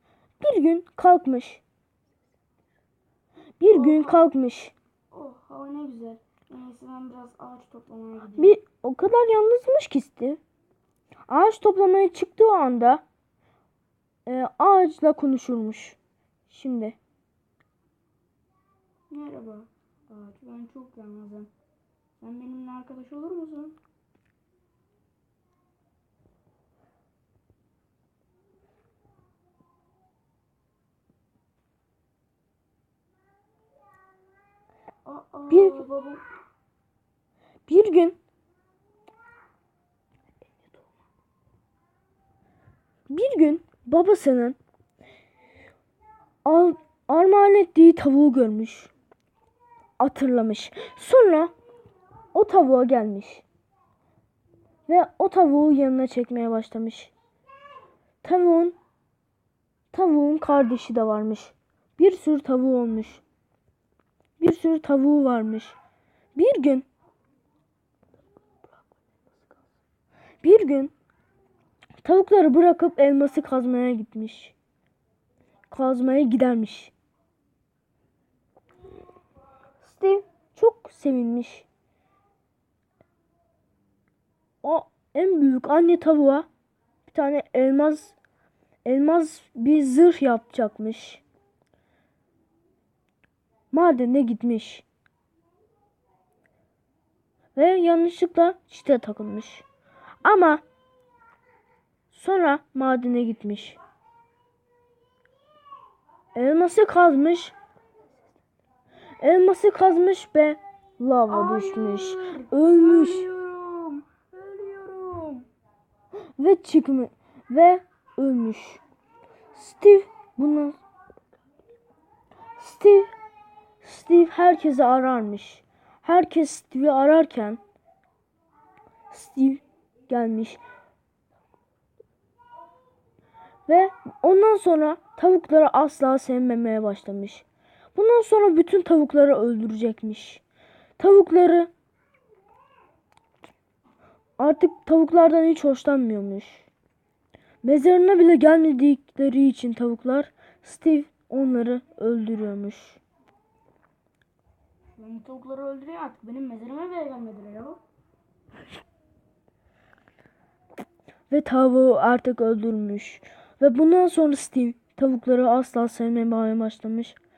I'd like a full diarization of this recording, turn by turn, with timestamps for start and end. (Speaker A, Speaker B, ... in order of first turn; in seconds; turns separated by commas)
Speaker A: 0.4-1.6, Speaker A: 3.6-4.7, Speaker B: 3.7-4.2, Speaker B: 5.1-8.6, Speaker A: 8.4-10.4, Speaker A: 11.3-13.0, Speaker A: 14.2-16.0, Speaker A: 16.5-17.0, Speaker B: 19.1-21.5, Speaker B: 22.2-23.8, Speaker B: 35.0-36.2, Speaker A: 35.5-35.8, Speaker A: 37.7-38.2, Speaker A: 43.1-44.6, Speaker A: 46.4-48.9, Speaker A: 50.0-51.5, Speaker A: 52.3-53.4, Speaker A: 54.9-57.1, Speaker A: 58.2-58.8, Speaker A: 59.9-63.2, Speaker A: 64.4-65.8, Speaker A: 66.3-66.9, Speaker A: 70.4-70.9, Speaker A: 72.0-74.5, Speaker A: 75.7-76.9, Speaker A: 79.8-81.7, Speaker A: 84.6-86.5, Speaker A: 87.1-88.2, Speaker A: 88.8-91.2, Speaker A: 93.7-94.8, Speaker A: 97.5-99.7, Speaker A: 100.2-100.6, Speaker A: 102.1-103.8, Speaker A: 106.3-107.5, Speaker A: 109.2-113.3, Speaker B: 111.3-115.5, Speaker A: 116.4-118.8, Speaker A: 119.5-120.8, Speaker A: 122.6-123.1, Speaker A: 123.8-127.6, Speaker A: 129.1-130.6, Speaker A: 133.7-140.4, Speaker A: 141.0-141.7, Speaker A: 144.4-146.7, Speaker A: 147.6-153.0, Speaker B: 154.9-157.8, Speaker A: 161.3-167.2